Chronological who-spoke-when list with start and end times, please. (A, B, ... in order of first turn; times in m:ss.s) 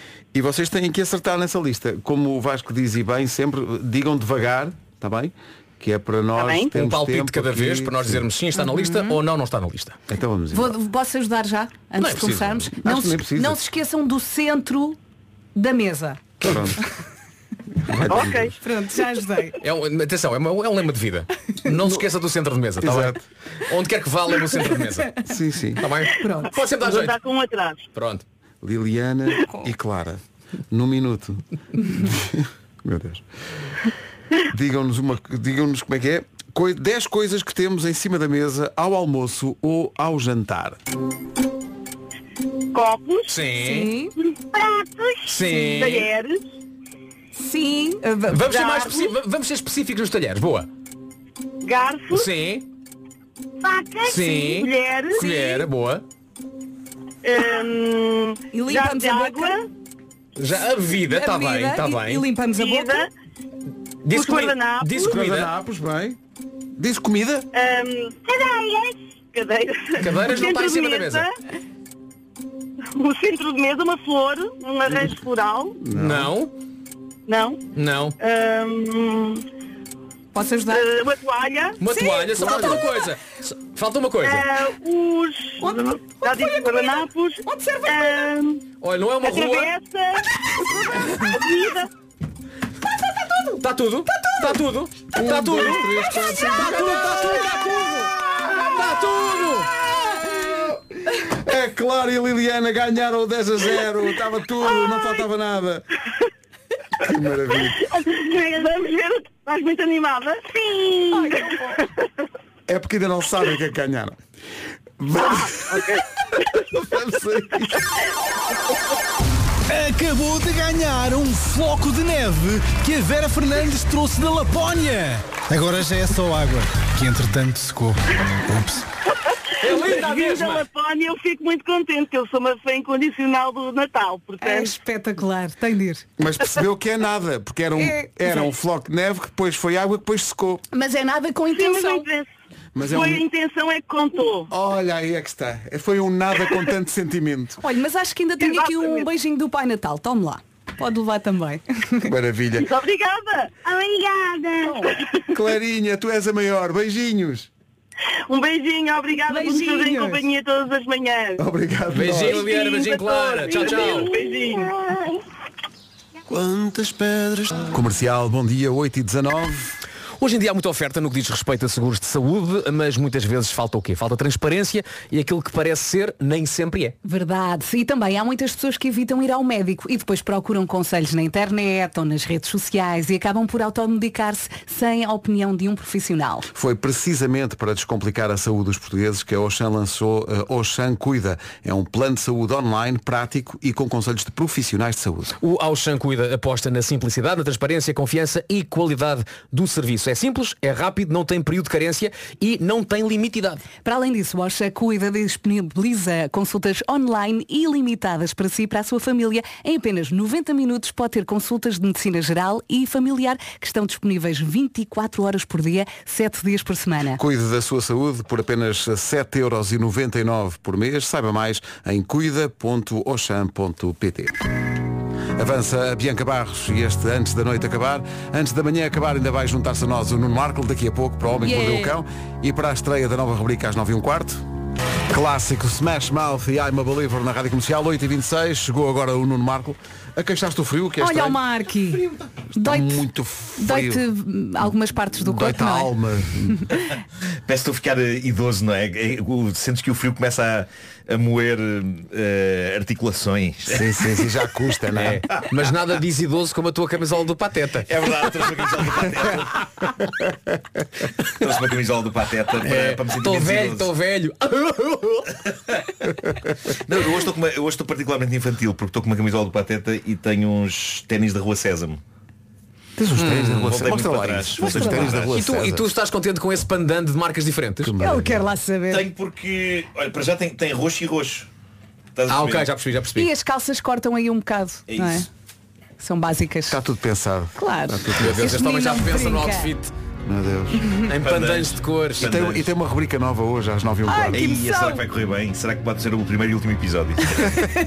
0:00.3-0:08.2 A
0:06.4-0:06.7 B
0:06.7-0:10.0 C
0:08.5-0:09.2 D
0:10.1-0:10.8 A
0:10.5-0:15.0 D
0:12.0-0:12.6 C
0:12.8-0:13.6 A
0:15.5-0:16.8 D
0:16.4-0:16.8 A
0:17.8-0:18.5 A
0:18.1-0:18.5 B
0:18.6-0:19.6 D
0:19.6-0:25.2 C
0:22.8-0:23.2 A
0:25.2-0:25.8 A
0:25.8-0:27.2 C
0:26.2-0:26.5 D
0:26.7-0:27.8 B
0:27.9-0:28.2 C
0:28.6-0:33.2 A
0:34.5-0:40.8 A
0:42.7-0:43.4 B
0:43.3-0:43.9 C
0:43.5-0:44.1 D
0:44.3-0:46.5 B
0:45.2-0:46.1 C
0:47.3-0:48.4 D
0:48.3-0:50.7 C
0:48.4-0:49.1 B
0:51.6-0:52.3 B
0:52.1-0:52.6 C
0:53.6-0:55.6 B
0:54.0-0:56.0 C
0:57.2-0:59.6 B
0:58.5-0:59.5 D
1:00.4-1:02.2 C
1:01.0-1:03.0 D
1:02.5-1:03.1 B
1:04.0-1:05.5 C
1:04.1-1:05.2 B
1:05.1-1:06.2 A
1:06.8-1:07.5 A
1:07.5-1:11.3 B
1:10.0-1:11.2 C
1:12.9-1:15.8 B
1:15.8-1:16.3 A
1:15.9-1:16.5 C
1:17.3-1:17.6 B
1:17.7-1:18.2 C
1:18.2-1:19.4 B
1:20.3-1:20.9 D
1:20.7-1:21.8 B
1:21.8-1:24.5 C
1:21.9-1:22.8 D
1:22.3-1:22.8 A
1:24.2-1:28.6 B
1:25.6-1:28.3 D
1:28.8-1:29.7 C
1:29.2-1:30.3 B
1:30.8-1:31.2 D
1:31.2-1:31.9 B
1:33.6-1:39.7 C
1:35.1-1:37.3 A
1:36.2-1:36.8 D
1:39.9-1:45.8 A
1:47.0-1:47.9 A
1:47.8-1:51.8 B
1:51.2-1:51.7 D
1:52.7-1:54.2 A
1:55.0-1:55.8 A
1:55.1-1:56.0 B
1:56.7-1:57.9 A
1:59.7-2:08.8 E
2:09.2-2:14.8 B
2:09.6-2:10.6 C
2:14.4-2:16.0 D
2:16.2-2:20.6 A
2:17.8-2:18.5 D
2:20.7-2:22.0 D
2:21.5-2:22.3 B
2:22.8-2:23.2 A
2:22.9-2:24.5 B
2:24.5-2:27.6 A
2:27.6-2:32.1 D
2:28.4-2:29.0 B
2:32.0-2:32.7 A
2:32.6-2:35.1 B
2:35.3-2:37.5 A
2:38.3-2:41.4 B
2:39.3-2:40.2 D
2:41.4-2:42.4 A
2:41.9-2:44.1 C
2:42.2-2:45.2 B
2:46.3-2:46.9 A
2:47.6-2:49.8 A
2:50.2-2:57.0 C
2:57.0-3:06.5 D
3:06.5-3:15.3 A
3:15.4-3:23.6 C
3:23.8-3:37.2 D
3:37.1-3:44.4 A
3:45.3-3:54.4 A
3:51.4-3:51.8 D
3:55.1-4:01.4 A
4:01.0-4:03.0 D
4:02.6-4:04.0 A
4:03.6-4:05.9 D
4:05.2-4:06.6 A
4:07.4-4:14.1 F
4:13.7-4:15.2 A
4:14.9-4:18.5 C
4:17.8-4:19.6 F
4:21.2-4:23.9 F
4:22.6-4:25.4 C
4:26.8-4:32.0 F
4:33.0-4:35.8 A
4:33.2-4:33.7 C
4:33.6-4:35.4 F
4:34.6-4:35.2 D
4:35.3-4:37.9 C
4:37.8-4:38.5 A
4:38.0-4:39.0 D
4:38.9-4:41.5 F
4:42.1-4:42.7 F
4:42.3-4:43.3 C
4:43.2-4:45.3 D
4:44.9-4:45.3 F
4:46.0-4:46.8 D
4:46.7-4:48.6 A
4:47.6-4:49.7 D
4:48.2-4:49.9 C
4:50.2-4:50.9 A
4:51.0-4:52.4 C
4:51.2-4:52.7 F
4:52.2-4:54.4 A
4:54.0-4:55.0 D
4:54.3-4:57.4 F